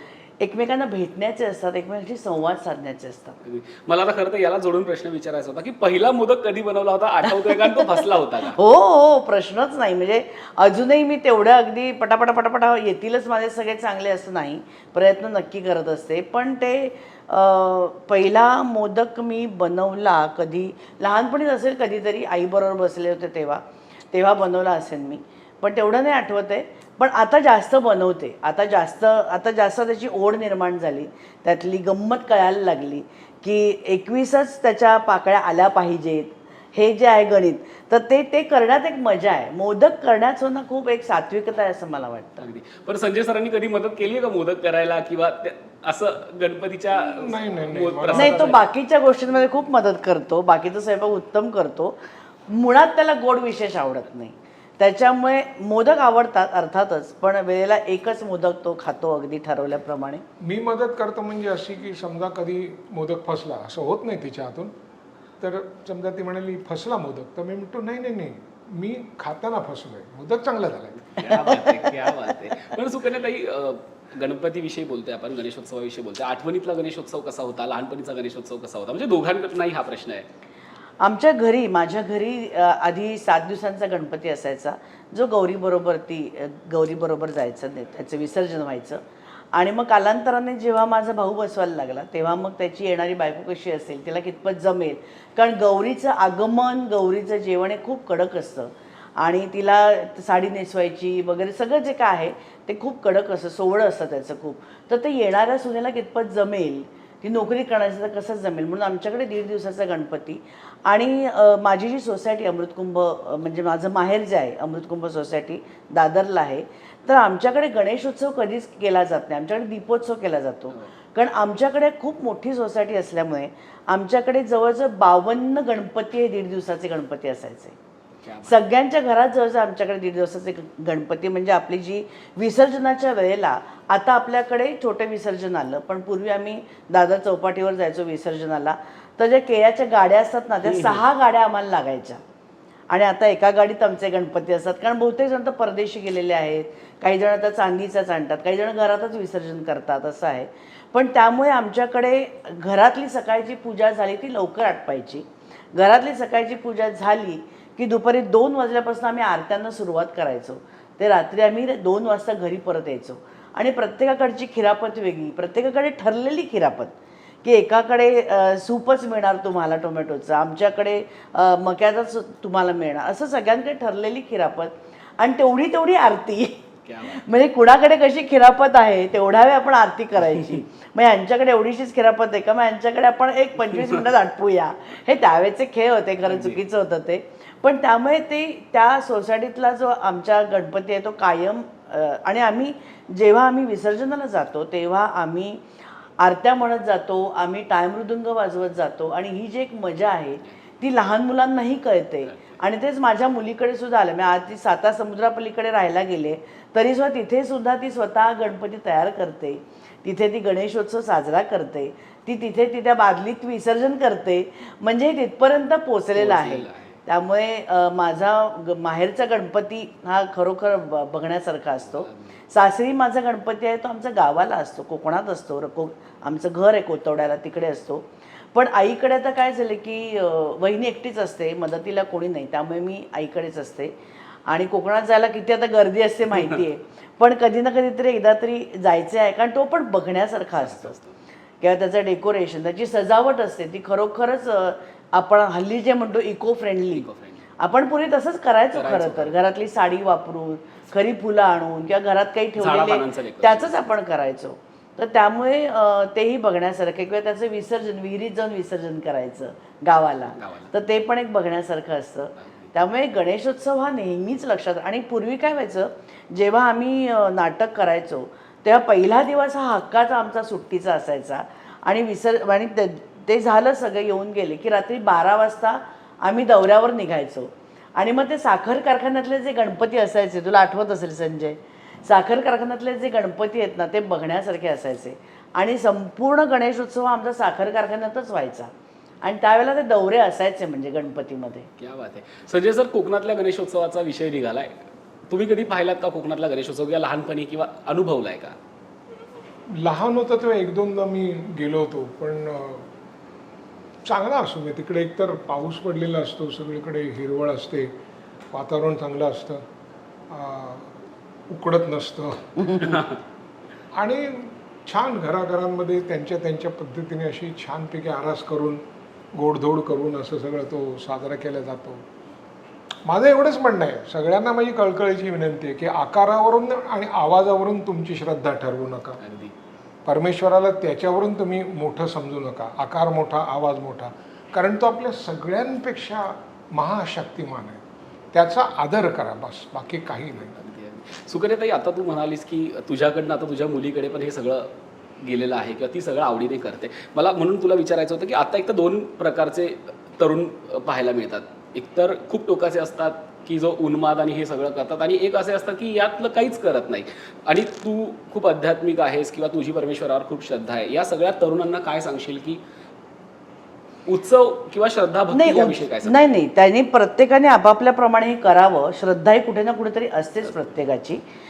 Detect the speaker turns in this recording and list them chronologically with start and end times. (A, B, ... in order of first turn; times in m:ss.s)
0:00.4-0:03.4 A
0:03.4-0:08.6 B
0:08.5-0:42.4 A
0:42.4-0:48.6 B
0:47.0-0:48.6 C
0:48.1-1:00.2 A
1:00.4-1:04.7 C
1:05.4-1:11.3 C
1:11.1-1:20.2 B
1:21.0-1:29.0 A
1:29.5-2:07.8 A
2:08.2-2:08.6 B
2:08.4-2:22.2 A
2:20.6-2:21.0 B
2:22.9-3:15.6 A
2:56.8-2:57.2 B
3:06.2-3:06.6 B
3:16.2-3:53.9 A
3:22.2-3:22.6 B
3:36.1-3:37.0 B
3:41.9-3:42.3 B
3:54.5-4:00.9 A
4:00.6-4:01.2 B
4:01.6-4:07.0 A
4:06.9-4:07.5 B
4:07.6-4:48.7 A
4:08.7-4:09.4 B
4:12.6-4:13.8 B
4:20.3-4:20.7 B
4:22.4-4:22.7 B
4:49.2-4:51.7 A
4:51.8-4:54.7 B
4:55.3-4:58.6 B
4:59.8-5:02.9 C
5:04.0-5:07.9 C
5:08.5-5:09.6 C
5:10.3-5:11.0 C
5:11.5-5:13.0 C
5:13.9-5:18.8 C
5:19.3-5:22.0 C
5:23.1-5:29.2 C
5:29.2-5:29.5 B
5:30.0-5:37.8 C
5:38.3-5:40.5 C
5:40.4-5:44.7 B
5:45.2-6:02.6 B
6:04.1-6:06.2 B
6:05.3-6:11.2 A